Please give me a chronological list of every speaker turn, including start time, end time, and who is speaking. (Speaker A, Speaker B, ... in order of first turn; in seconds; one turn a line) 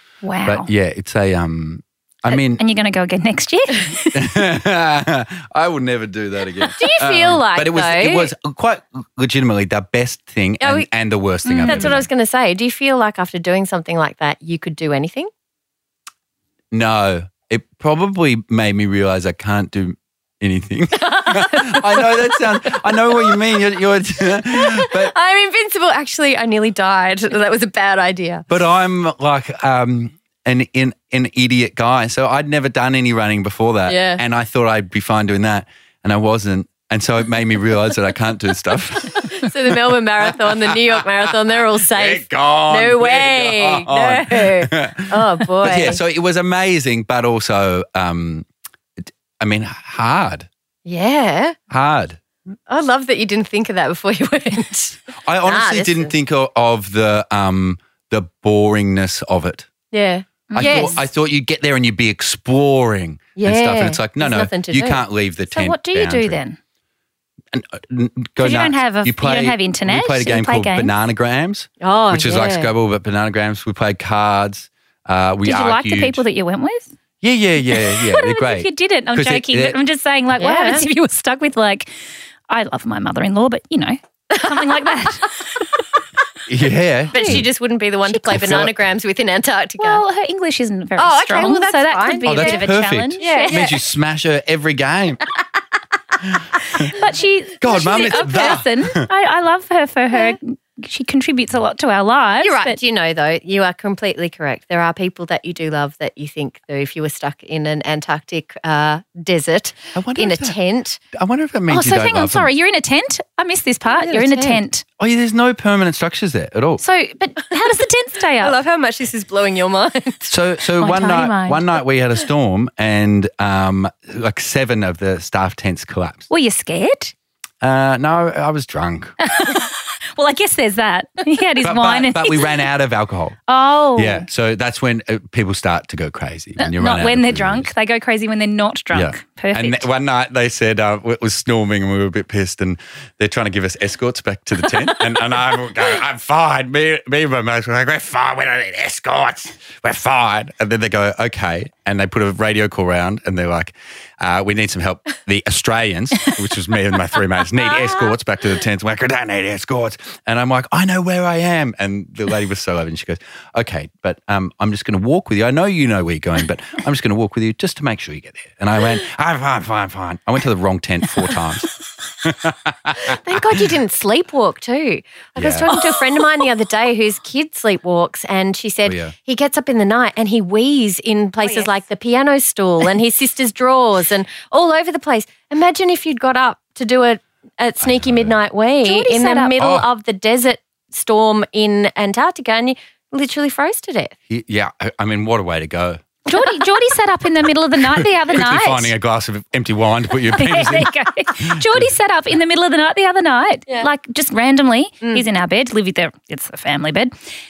Speaker A: 0.2-0.7
Speaker B: 0.5-2.6
Speaker A: 2.3-4.3
Speaker B: 4.1-12.1
Speaker C: 6.8-8.3
Speaker C: 10.6-10.9
Speaker A: 11.5-11.9
Speaker C: 11.6-15.3
Speaker B: 16.7-25.1
Speaker C: 21.1-23.4
Speaker C: 24.4-28.5
Speaker B: 28.5-39.5
Speaker C: 33.9-34.2
Speaker C: 39.1-46.0
Speaker B: 40.3-48.5
Speaker B: 49.0-50.5
Speaker C: 50.9-51.6
Speaker B: 51.7-52.2
Speaker C: 52.7-56.1
Speaker B: 55.2-59.7
Speaker C: 59.9-61.0
Speaker A: 60.5-61.0
Speaker B: 60.5-66.4
Speaker C: 63.4-65.0
Speaker A: 65.5-66.6
Speaker B: 67.5-76.2
Speaker A: 68.4-70.9
Speaker C: 71.8-72.7
Speaker A: 75.4-76.9
Speaker B: 77.2-79.8
Speaker A: 77.7-81.9
Speaker C: 80.4-80.8
Speaker A: 82.5-85.7
Speaker C: 84.3-84.9
Speaker B: 86.5-87.5
Speaker C: 87.1-90.0
Speaker A: 87.1-87.4
Speaker B: 88.2-88.7
Speaker A: 89.8-93.6
Speaker C: 91.0-92.6
Speaker B: 92.3-95.2
Speaker C: 93.2-93.8
Speaker B: 96.2-97.0
Speaker A: 96.9-102.8
Speaker B: 97.6-99.0
Speaker C: 102.4-111.0
Speaker B: 109.9-110.6
Speaker B: 111.1-112.5
Speaker A: 111.7-114.8
Speaker C: 113.9-114.6
Speaker B: 115.0-116.8
Speaker A: 116.8-118.6
Speaker C: 118.4-120.3
Speaker B: 120.3-126.3
Speaker A: 120.8-121.6
Speaker A: 126.3-127.1
Speaker B: 127.6-129.2
Speaker A: 129.2-132.6
Speaker B: 131.6-133.4
Speaker A: 133.5-134.3
Speaker B: 133.9-137.7
Speaker A: 136.6-139.8
Speaker B: 138.9-173.7
Speaker C: 173.0-194.2
Speaker B: 175.4-175.8
Speaker B: 178.9-179.2
Speaker B: 187.8-188.4
Speaker A: 188.8-189.5
Speaker B: 189.6-189.9
Speaker B: 194.3-196.0
Speaker A: 196.3-198.9
Speaker B: 197.9-200.9
Speaker A: 200.3-207.1
Speaker B: 201.4-201.9